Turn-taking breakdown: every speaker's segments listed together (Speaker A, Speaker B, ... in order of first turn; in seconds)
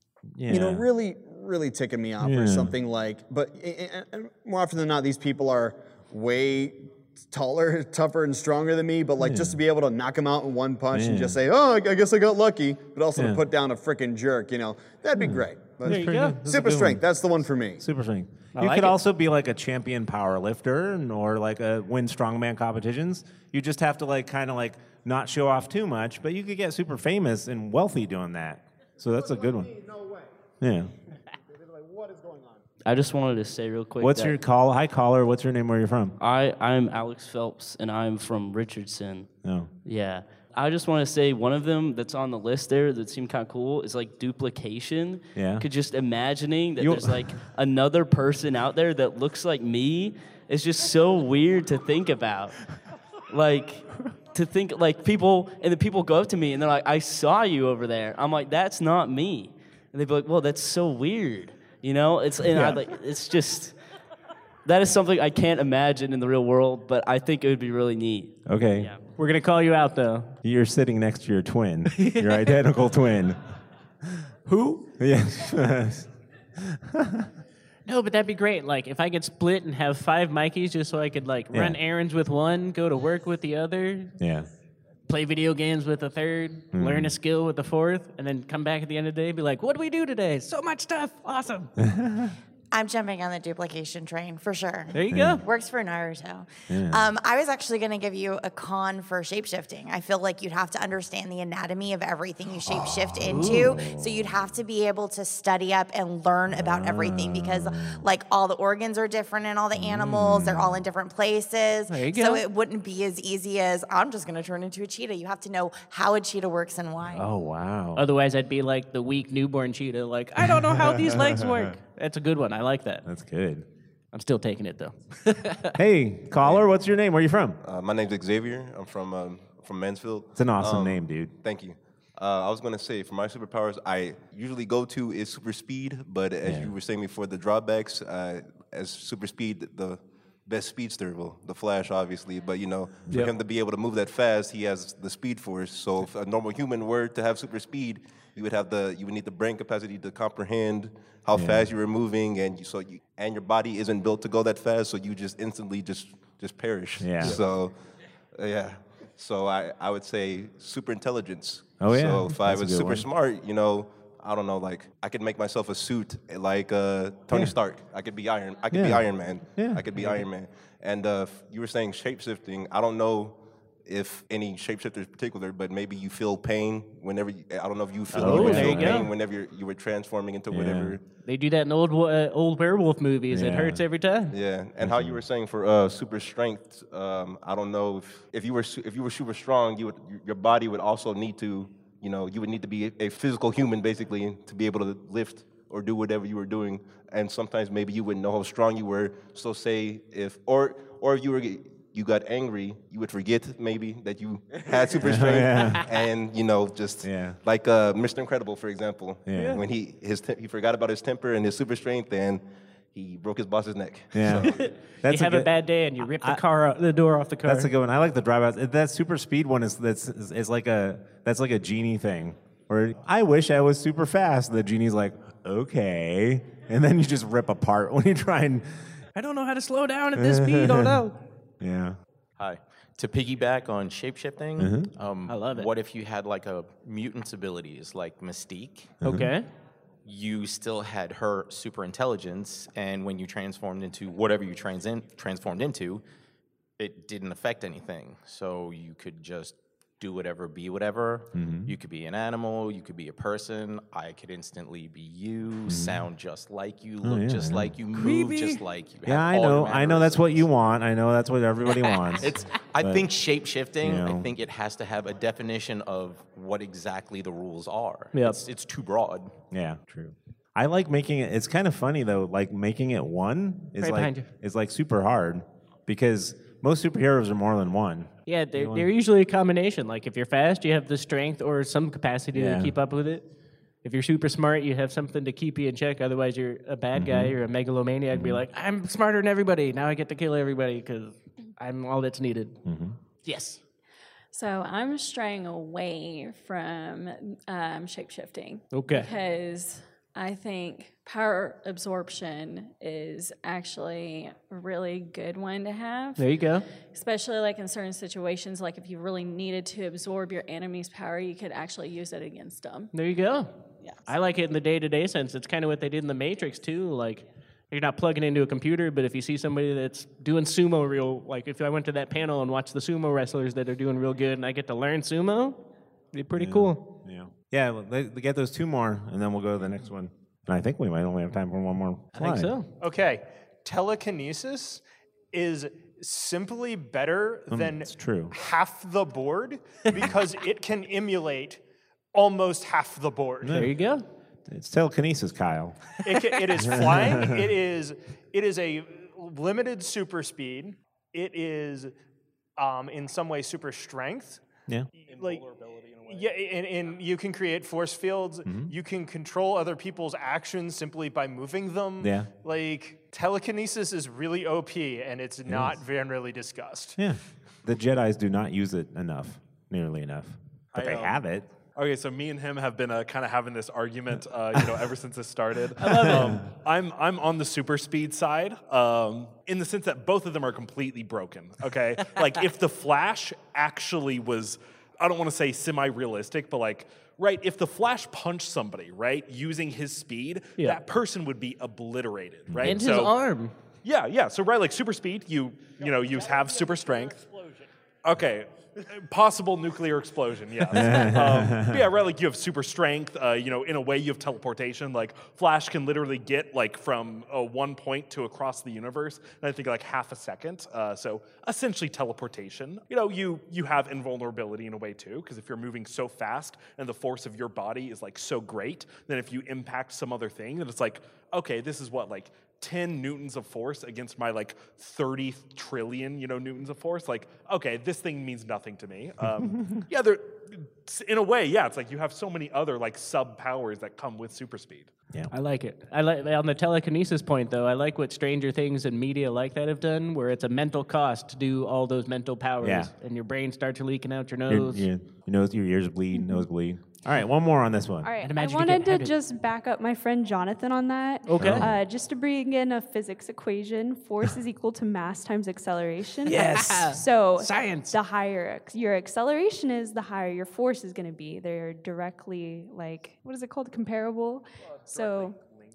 Speaker A: 0.3-0.9, 2.2-2.7, 9.2-9.6, 10.9-11.4, 13.1-13.4, 15.2-17.1, 17.8-29.8, 30.6-30.9, 34.0-36.2, 39.4-39.7, 45.3-45.7, 46.8-47.4, 62.4-62.9, 68.5-68.9, 70.4-73.4, 75.0-77.3, 81.5-81.8, 84.2-84.5, 86.7-87.1, 91.8-92.3, 95.1-95.4, 96.7-97.1, 102.6-104.5, 106.5-108.0, 109.8-110.8, 117.1-118.0, 120.5-121.7, 123.0-123.7, 125.7-127.6, 130.3-131.3, 136.4-136.7, 151.3-151.7, 157.0-157.4, 161.8-163.1, 167.3-167.6, 168.7-170.2, 178.1-179.1, 180.5-181.0, 183.3-183.8, 184.8-185.2, 205.0-205.9, 207.0-207.4, 209.3-209.6, 214.1-214.5, 215.0-216.4, 217.4-229.0, 230.2-231.0, 231.6-232.0, 234.6-234.9, 239.0-239.3, 251.3-251.7, 255.7-256.1, 257.0-257.8, 259.0-263.1, 263.8-264.3, 269.5-278.9, 282.3-282.7, 286.9-287.4, 288.1-288.4, 292.6-293.0, 326.3-332.6, 337.5-338.3, 343.4-343.7, 344.5-345.8, 346.5-347.5, 358.4-358.7, 362.0-362.3, 365.5-365.8, 367.0-371.5, 375.9-376.4, 392.5-392.8, 400.7-401.9, 429.3-429.8, 442.6-442.9, 444.5-448.1, 451.4-451.8, 456.5-456.9
Speaker B: 0.5-17.8
Speaker C: 15.8-16.4, 18.5-19.0, 69.2-70.4, 72.0-72.4, 74.5-74.8, 77.8-84.2, 85.1-91.7, 94.9-95.4, 103.2-103.7, 111.9-112.4, 118.0-123.0, 124.1-125.7, 178.2-179.1, 181.2-184.3, 209.3-209.6, 214.3-217.7, 229.1-231.2, 235.3-235.7, 239.0-239.5, 257.9-258.6, 268.1-268.4, 273.8-274.3, 278.3-283.2, 283.8-292.6, 293.2-293.6, 298.7-299.1, 306.2-306.6, 312.9-313.5, 314.1-325.6, 326.1-326.9, 332.1-332.7, 343.5-344.0, 375.8-376.4, 392.6-393.5, 435.3-444.9, 448.2-449.1, 451.3-451.7, 456.2-457.9
Speaker D: 32.8-34.4, 36.2-39.3, 39.8-52.5, 53.3-63.7, 64.6-69.0
Speaker E: 92.7-117.2
Speaker F: 127.6-157.7, 158.3-181.0, 184.3-214.7
Speaker G: 232.4-239.0, 240.0-246.0, 246.8-260.5, 262.2-269.3
Speaker H: 294.3-306.3, 306.9-312.9
Speaker I: 332.8-341.6, 342.1-343.7, 346.0-351.9, 352.6-354.4, 355.0-355.5, 356.0-367.0
Speaker J: 355.1-356.1, 371.8-393.1, 393.8-397.2, 398.0-434.9
Speaker K: 446.1-446.4, 448.0-465.4